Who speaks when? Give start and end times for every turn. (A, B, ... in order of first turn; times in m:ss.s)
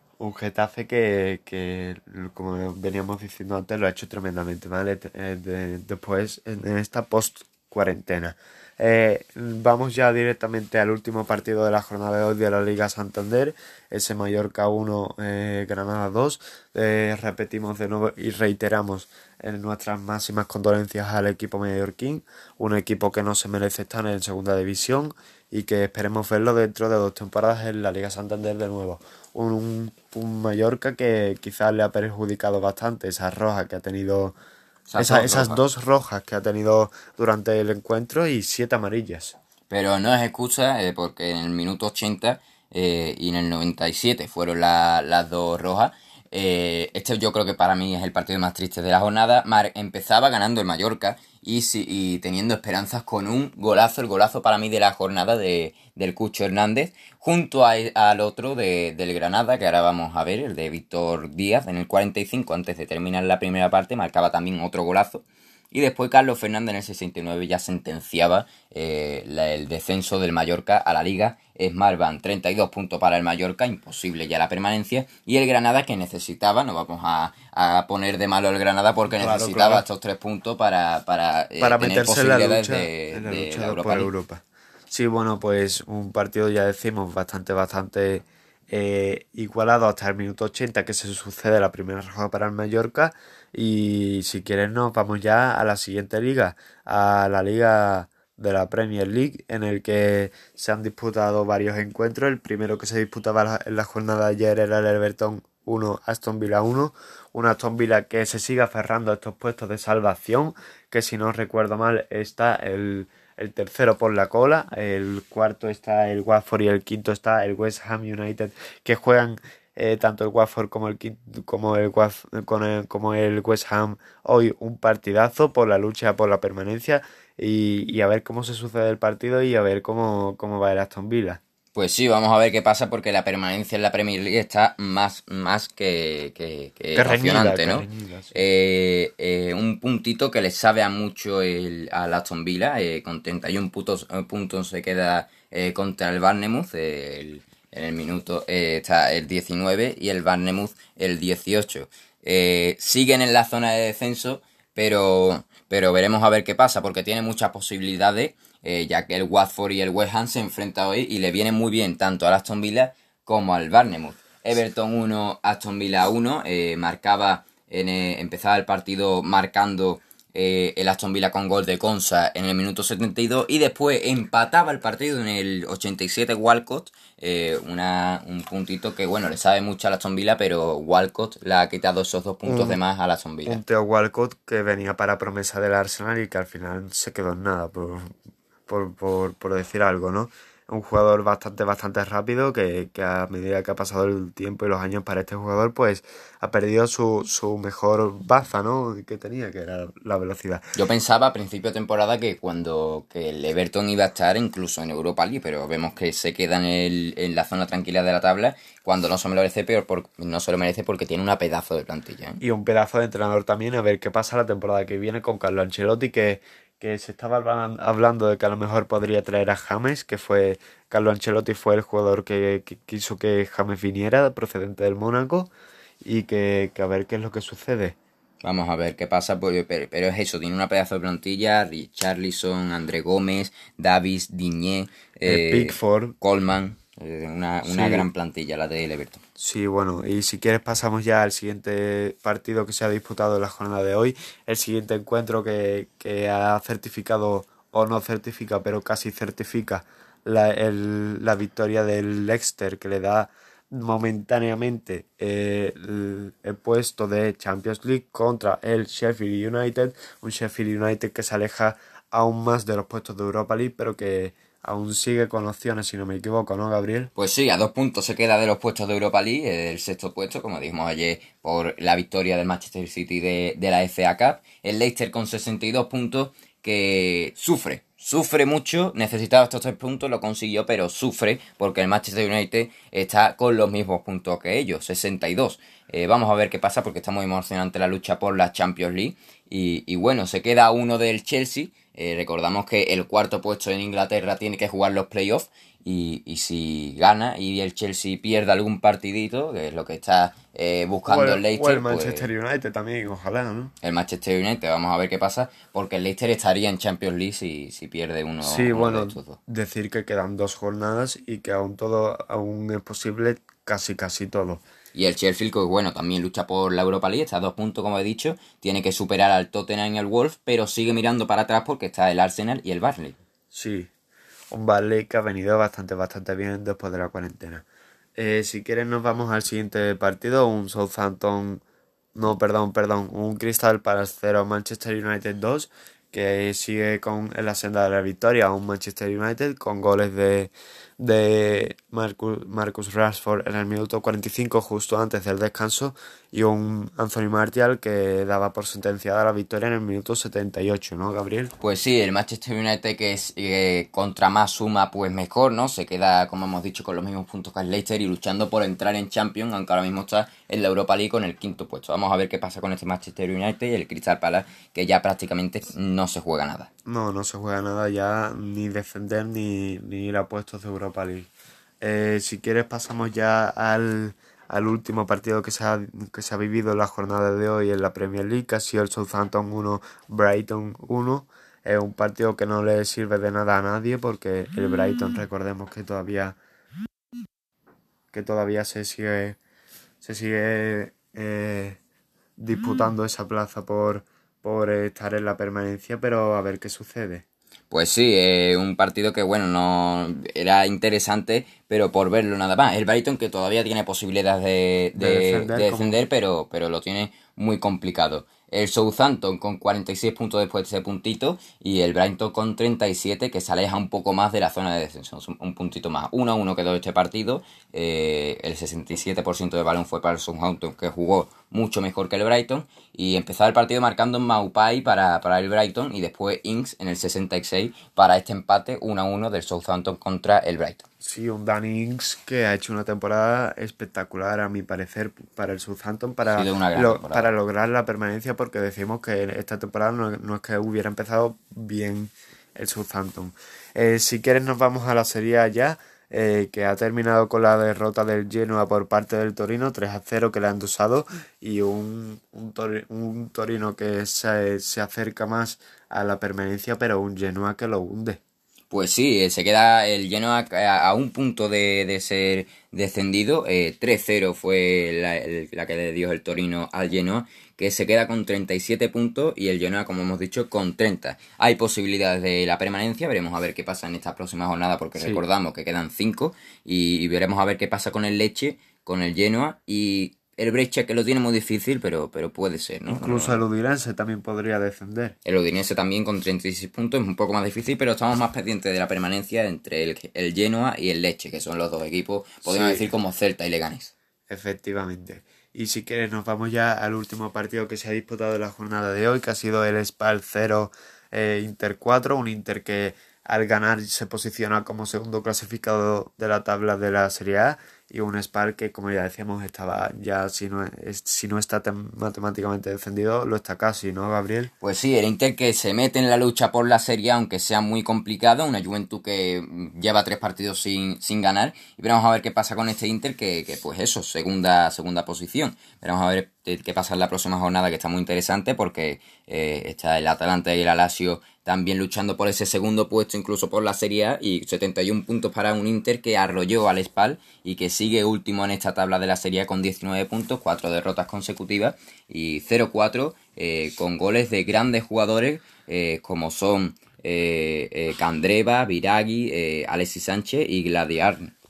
0:00.2-0:34.4 A
0:34.9-0:35.6 B
0:35.0-0:39.4 A
0:39.7-1:24.1 B
1:19.1-1:19.8 A
1:21.6-2:11.4 A
2:11.7-3:03.6 B
2:16.9-2:18.4 A
3:02.4-3:02.8 A
3:03.4-3:08.1 A
3:08.7-3:20.8 A
3:20.8-3:32.4 B
3:32.4-3:45.5 A
3:46.0-3:48.0 A
3:48.4-3:59.2 B
3:55.2-3:56.1 A
3:57.6-3:58.1 A
3:59.4-4:27.1 A
4:27.2-5:02.3 B
5:01.0-5:03.7 A
5:03.8-5:09.4 B
5:08.4-5:14.6 A
5:14.9-5:23.2 B
5:23.5-5:23.9 A
5:24.5-5:27.6 A
5:28.2-5:31.6 A
5:32.2-5:51.5 A
5:51.6-6:06.7 B
6:06.8-6:11.3 A
6:11.8-6:26.4 A
6:28.1-6:29.4 A
6:30.0-6:31.8 A
6:32.4-6:37.2 A
6:37.7-7:10.8 B
6:45.0-6:46.0 A
7:11.0-7:38.2 A
7:16.3-7:17.3 B
7:38.7-8:03.4 B
8:02.9-8:05.2 A
8:05.2-8:13.9 B
8:12.4-8:12.9 A
8:14.3-8:34.5 A
8:34.6-9:11.3 B